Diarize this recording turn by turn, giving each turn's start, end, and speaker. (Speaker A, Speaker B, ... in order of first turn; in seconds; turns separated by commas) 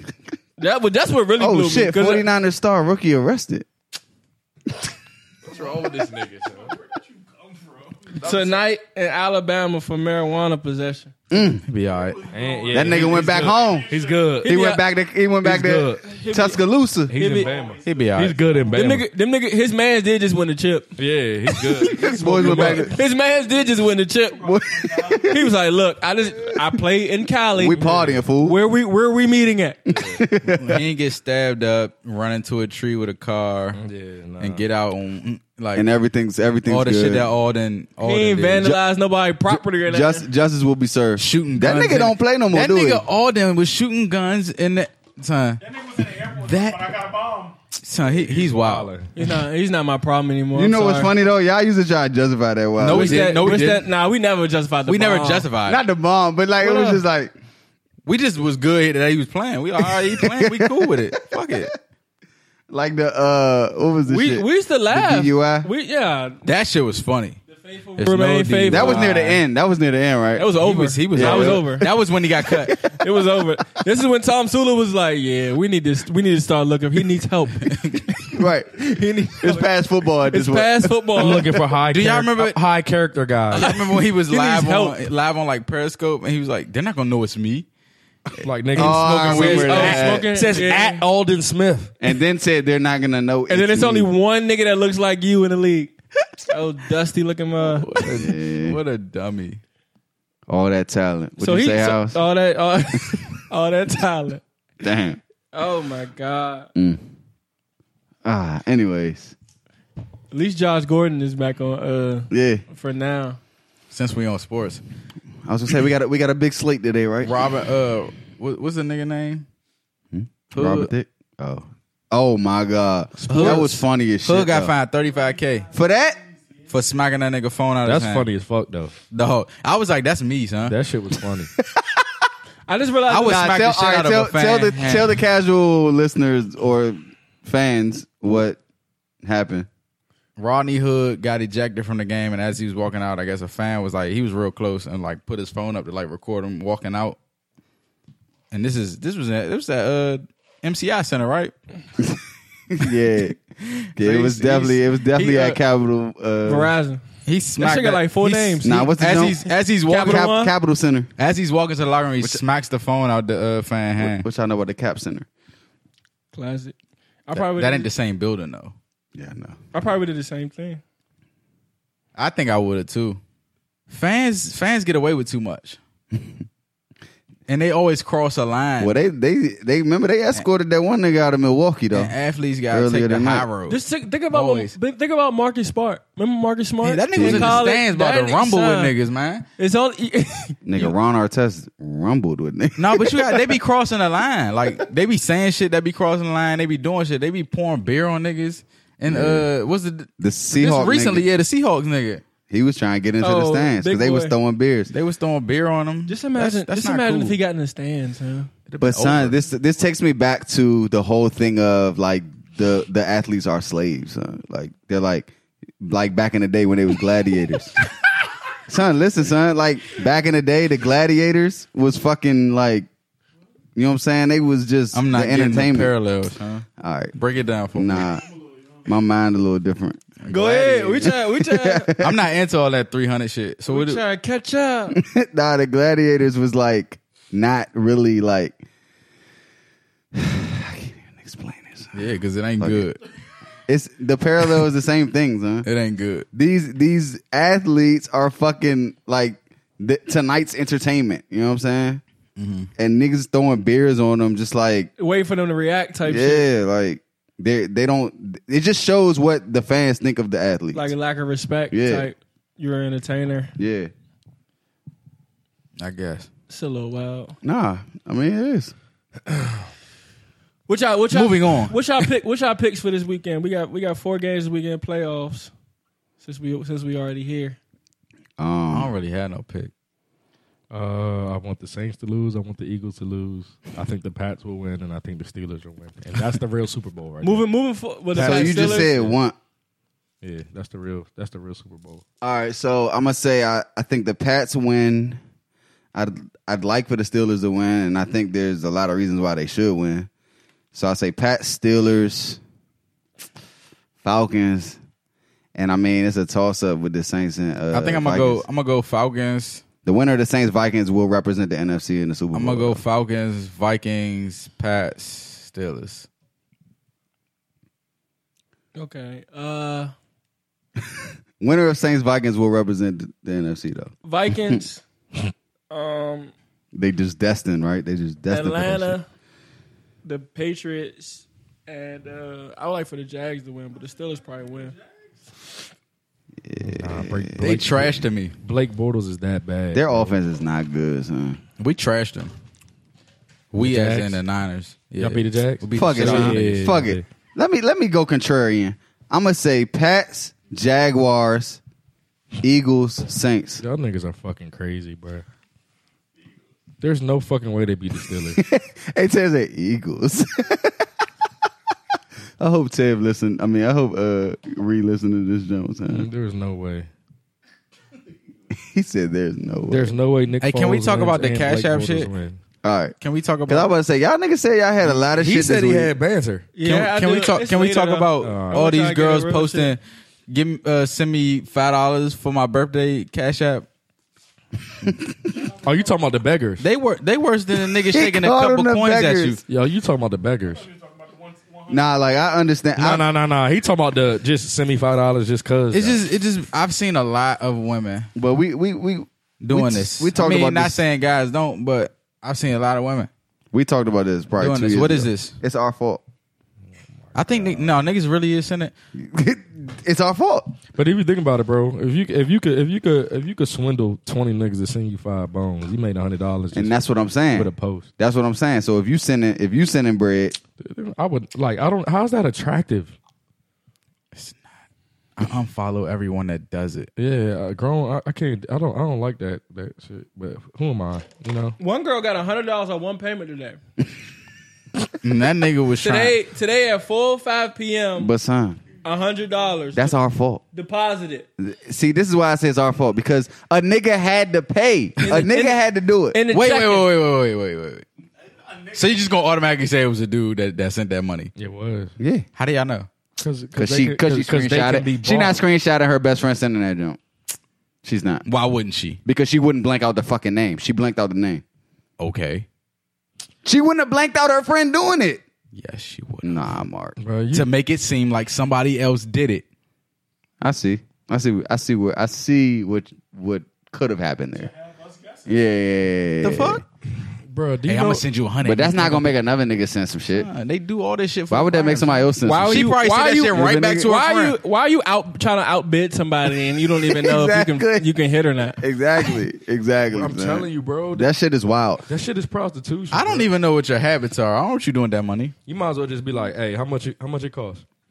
Speaker A: 0.6-2.2, Speaker B: 1.4-3.7, Speaker C: 5.4-6.8, Speaker D: 5.5-8.3, Speaker C: 8.2-8.6, Speaker A: 8.2-11.1, Speaker B: 11.3-11.7, Speaker E: 11.6-12.2, Speaker D: 11.9-14.4, Speaker C: 12.3-14.5, Speaker B: 12.7-13.9, Speaker B: 14.4-17.1, Speaker A: 14.4-14.8, Speaker C: 15.4-16.1, Speaker A: 16.0-17.5, Speaker C: 17.1-19.1, Speaker D: 17.3-18.7, Speaker E: 17.8-18.4, Speaker A: 18.7-20.9, Speaker C: 21.0-22.9, Speaker A: 21.6-24.5, Speaker B: 22.0-22.9, Speaker D: 24.4-25.4, Speaker B: 24.4-25.5, Speaker A: 25.2-27.8, Speaker B: 27.6-28.6, Speaker C: 27.7-28.2, Speaker A: 28.4-30.0, Speaker B: 29.9-30.8, Speaker C: 29.9-30.2, Speaker E: 30.4-33.8, Speaker C: 33.7-34.6, Speaker E: 34.4-36.0, Speaker B: 35.7-37.2, Speaker E: 36.6-38.8, Speaker A: 38.0-40.3, Speaker B: 39.5-43.0, Speaker E: 41.2-45.6, Speaker D: 45.6-47.6, Speaker E: 46.3-47.0, Speaker E: 47.8-48.9, Speaker C: 48.1-49.1, Speaker A: 49.1-51.1, Speaker B: 50.5-53.6, Speaker E: 52.8-53.9, Speaker A: 52.9-55.5, Speaker E: 54.9-55.8, Speaker B: 55.6-57.3, Speaker A: 56.6-57.0, Speaker E: 58.0-61.7, Speaker B: 59.8-61.7, Speaker B: 62.7-65.7, Speaker A: 64.0-66.5, Speaker E: 66.4-67.4, Speaker A: 67.7-69.2, Speaker E: 68.0-69.4, Speaker B: 68.7-70.5, Speaker A: 70.3-71.9, Speaker E: 70.6-72.8, Speaker B: 71.1-71.8, Speaker A: 72.4-79.7, Speaker B: 78.3-78.8, Speaker B: 79.4-81.4, Speaker A: 80.3-81.5, Speaker C: 81.2-83.7, Speaker E: 81.9-82.6, Speaker E: 83.5-87.7, Speaker A: 83.5-85.0, Speaker C: 88.4-91.9, Speaker B: 88.7-90.2, Speaker E: 88.8-90.2, Speaker A: 89.3-91.0, Speaker B: 92.0-94.1, Speaker A: 93.5-95.9, Speaker A: 96.5-97.9, Speaker E: 97.6-99.6, Speaker C: 98.0-98.3, Speaker B: 98.1-98.8, Speaker B: 100.5-102.2, Speaker A: 101.4-104.4, Speaker B: 104.8-105.2, Speaker A: 105.5-106.7, Speaker B: 106.7-107.0, Speaker B: 108.2-109.3, Speaker A: 110.3-113.4, Speaker B: 112.3-112.6, Speaker E: 113.9-114.8, Speaker B: 115.4-117.4, Speaker E: 117.2-119.5, Speaker B: 120.1-124.7, Speaker E: 120.5-120.9, Speaker C: 123.2-123.7, Speaker E: 123.2-125.7, Speaker B: 125.7-126.2, Speaker E: 126.7-128.3, Speaker C: 127.8-129.0, Speaker E: 129.1-130.8, Speaker C: 130.6-131.5, Speaker B: 131.6-132.0, Speaker A: 132.7-133.6, Speaker E: 133.1-135.1, Speaker B: 133.2-138.6, Speaker B: 139.2-139.7, Speaker E: 140.4-147.2, Speaker E: 148.5-151.5, Speaker B: 152.7-153.4, Speaker E: 153.6-154.8, Speaker B: 153.9-156.7, Speaker A: 155.1-155.6, Speaker A: 156.4-157.0, Speaker E: 157.2-160.3, Speaker A: 157.6-158.9, Speaker B: 158.6-159.4, Speaker A: 159.9-160.5, Speaker B: 159.9-161.1, Speaker E: 161.2-164.2, Speaker B: 164.0-165.2, Speaker A: 166.3-166.7, Speaker A: 167.3-167.9, Speaker E: 167.3-168.7, Speaker B: 169.1-169.6, Speaker A: 169.7-170.8, Speaker E: 172.1-173.2, Speaker E: 173.9-175.8, Speaker E: 177.5-179.0, Speaker B: 178.8-182.1, Speaker E: 181.9-183.8, Speaker B: 182.7-183.5, Speaker A: 183.7-188.9, Speaker E: 184.3-184.7, Speaker E: 186.8-189.4, Speaker B: 187.2-187.6, Speaker A: 189.6-190.8, Speaker B: 190.6-193.5, Speaker E: 192.8-202.2, Speaker B: 199.1-199.5, Speaker B: 200.2-201.2, Speaker B: 202.4-204.9, Speaker A: 203.2-204.3, Speaker E: 204.9-207.4, Speaker A: 206.1-208.5, Speaker E: 208.7-209.4, Speaker B: 208.8-217.9, Speaker B: 218.7-222.9, Speaker B: 223.8-225.9, Speaker E: 224.9-228.1, Speaker B: 226.8-227.1, Speaker B: 227.7-228.2, Speaker B: 228.8-232.1, Speaker E: 230.2-231.1, Speaker A: 230.3-231.9, Speaker E: 232.0-234.0, Speaker A: 233.7-235.0, Speaker B: 234.9-238.6, Speaker B: 240.1-242.0, Speaker E: 241.9-243.0, Speaker B: 242.6-242.9, Speaker B: 243.7-245.7, Speaker E: 245.6-246.3, Speaker B: 246.3-252.0, Speaker E: 252.4-252.7, Speaker B: 252.8-254.9, Speaker A: 255.0-256.5, Speaker B: 256.1-260.9, Speaker A: 260.7-263.5, Speaker B: 261.7-262.1, Speaker B: 263.6-263.9, Speaker E: 265.8-266.3, Speaker A: 266.5-267.4, Speaker B: 267.4-268.7, Speaker C: 269.3-269.5, Speaker A: 270.7-275.5, Speaker E: 271.1-271.8, Speaker A: 276.2-277.6, Speaker B: 278.4-278.9, Speaker E: 278.7-279.7, Speaker C: 280.7-287.4, Speaker A: 287.2-288.9, Speaker C: 288.2-289.2, Speaker B: 288.2-289.4, Speaker C: 290.2-292.0, Speaker B: 292.2-295.2, Speaker B: 295.9-300.1, Speaker B: 300.7-302.4, Speaker B: 304.0-304.8, Speaker B: 305.6-308.4, Speaker E: 307.7-309.6, Speaker B: 309.8-312.8, Speaker E: 312.3-316.1, Speaker A: 318.7-319.9, Speaker B: 321.4-323.9, Speaker A: 324.0-324.8, Speaker A: 325.7-326.3, Speaker B: 326.7-328.9, Speaker A: 328.3-329.1, Speaker A: 330.0-334.8, Speaker B: 336.4-337.3, Speaker C: 336.6-340.1, Speaker E: 337.4-338.3, Speaker B: 339.7-341.4, Speaker E: 341.6-342.3, Speaker E: 343.5-346.9, Speaker C: 343.6-344.2, Speaker C: 345.0-347.0, Speaker B: 345.7-351.6, Speaker B: 352.4-353.6, Speaker C: 353.6-355.2, Speaker C: 356.8-358.4, Speaker B: 358.4-360.8, Speaker B: 362.4-366.1, Speaker C: 365.9-366.9, Speaker B: 368.6-369.9, Speaker C: 369.7-372.4, Speaker E: 370.4-372.1, Speaker B: 372.6-372.9, Speaker E: 373.0-373.7, Speaker B: 373.5-375.9, Speaker C: 375.1-376.5, Speaker A: 376.5-379.7, Speaker E: 376.6-383.7, Speaker C: 378.2-378.6, Speaker B: 384.8-385.1, Speaker C: 385.6-386.6, Speaker E: 386.6-389.4, Speaker B: 387.9-389.4, Speaker C: 389.5-390.7, Speaker D: 390.4-392.0, Speaker B: 391.7-393.1, Speaker C: 392.8-396.0, Speaker E: 395.7-398.1, Speaker B: 398.1-400.8, Speaker E: 399.4-403.1, Speaker B: 403.5-406.0, Speaker E: 404.4-405.4, Speaker C: 407.1-407.7, Speaker E: 407.1-408.7, Speaker B: 408.9-410.6, Speaker C: 410.7-416.8, Speaker B: 416.5-420.4, Speaker C: 417.3-417.9, Speaker C: 420.6-422.9, Speaker E: 424.1-424.5, Speaker E: 425.2-426.9, Speaker C: 427.0-431.6, Speaker A: 431.6-433.6, Speaker E: 435.0-436.1, Speaker A: 435.8-438.1, Speaker B: 438.0-438.6, Speaker A: 438.8-440.0, Speaker B: 439.7-440.4, Speaker A: 440.5-441.3, Speaker B: 441.4-446.2, Speaker A: 445.0-445.6, Speaker A: 446.1-446.9, Speaker E: 446.3-447.9, Speaker E: 448.7-451.3, Speaker C: 451.4-451.9, Speaker B: 452.0-452.2, Speaker E: 452.4-452.9, Speaker C: 453.2-455.4, Speaker B: 453.5-457.0, Speaker B: 457.8-458.2, Speaker E: 458.2-459.0, Speaker B: 459.0-461.4, Speaker E: 462.0-462.4, Speaker B: 463.4-465.2, Speaker E: 465.5-466.6, Speaker B: 466.2-466.9, Speaker C: 467.0-467.5, Speaker E: 467.3-469.4, Speaker B: 470.4-474.5, Speaker D: 474.3-475.3, Speaker B: 475.3-476.6, Speaker E: 476.2-476.6, Speaker C: 477.3-478.0, Speaker E: 477.6-479.2, Speaker B: 478.4-480.3, Speaker E: 480.1-484.4, Speaker B: 481.3-482.5, Speaker A: 482.2-488.6, Speaker B: 483.3-483.9, Speaker B: 486.9-487.9, Speaker B: 488.6-491.8, Speaker C: 489.9-491.1, Speaker C: 491.9-493.3, Speaker E: 492.9-495.3, Speaker C: 495.4-497.6